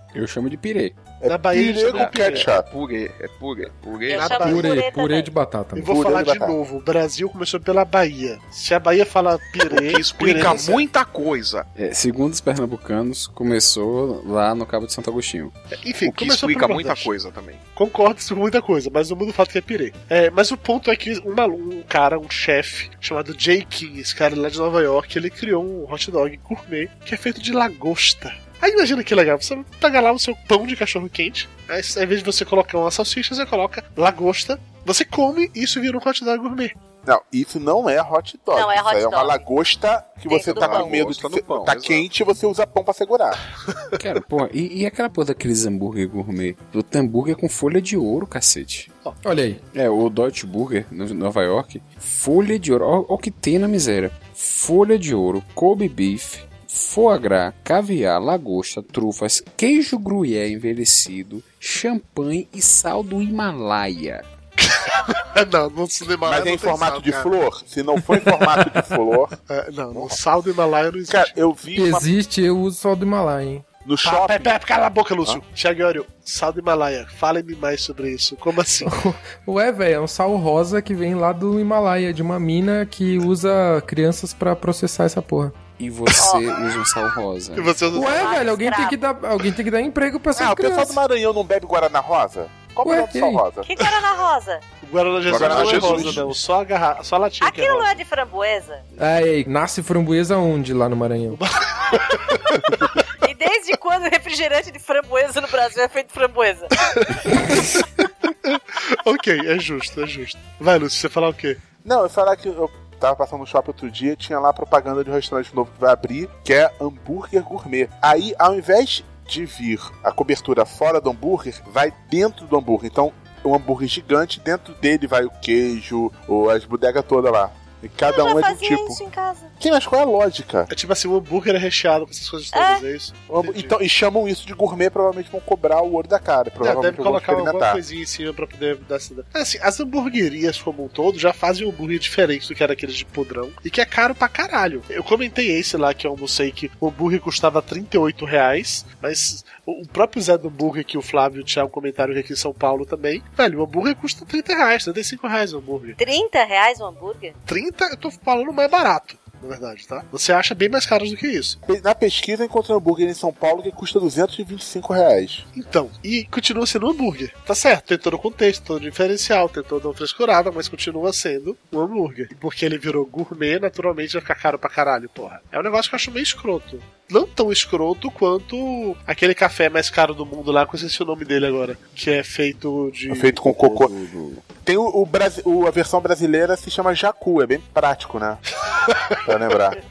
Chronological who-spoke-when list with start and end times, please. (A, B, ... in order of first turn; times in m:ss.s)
0:00.1-0:01.1 A
0:01.2-0:02.7 B
0:01.3-0:02.5 C
0:01.9-0:04.4 D
0:04.1-0:05.3 E
0:04.1-0:04.8 C
0:04.4-0:06.0 F
0:05.7-0:10.8 C
0:05.8-0:06.6 B
0:09.7-0:11.7 D
0:11.8-0:15.6 A
0:15.8-0:17.1 C
0:16.0-0:17.6 D
0:17.8-0:36.7 C
0:37.0-0:43.4 B
0:38.5-0:39.5 E
0:40.3-0:41.1 E
0:40.4-0:42.1 D
0:44.0-0:48.9 A
0:49.2-0:49.6 F
0:49.7-1:04.2 A
1:04.6-1:07.3 C
1:06.2-1:09.3 B
1:09.5-1:11.3 C
1:09.9-1:10.2 B
1:11.1-1:12.1 B
1:11.7-1:13.6 F
1:13.8-1:14.6 B
1:14.0-1:18.9 C
1:18.8-1:25.6 F
1:25.8-1:27.8 A
1:26.2-1:26.6 E
1:27.6-1:28.4 C
1:27.9-1:31.0 F
1:27.9-1:29.0 E
1:30.3-1:33.7 B
1:32.8-1:33.4 F
1:33.6-1:34.6 E
1:34.8-1:38.0 C
1:35.3-1:36.3 D
1:35.3-1:36.3 B
1:37.4-1:38.8 E
1:39.0-1:41.4 F
1:41.3-1:42.8 C
1:43.2-1:46.7 E
1:46.9-1:47.9 C
1:48.4-1:51.6 C
1:51.8-2:09.0 B
2:08.0-2:09.5 E
2:09.6-2:10.7 B
2:10.7-2:13.7 C
2:12.5-2:12.8 E
2:13.3-2:17.8 B
2:16.6-2:36.0 C
2:36.0-2:37.4 E
2:37.4-2:41.6 C
2:41.6-2:45.4 B
2:45.6-3:03.4 C
3:03.1-3:03.9 B
3:03.5-3:04.4 A
3:04.6-3:08.4 B
3:08.7-3:09.2 C
3:09.2-3:09.8 B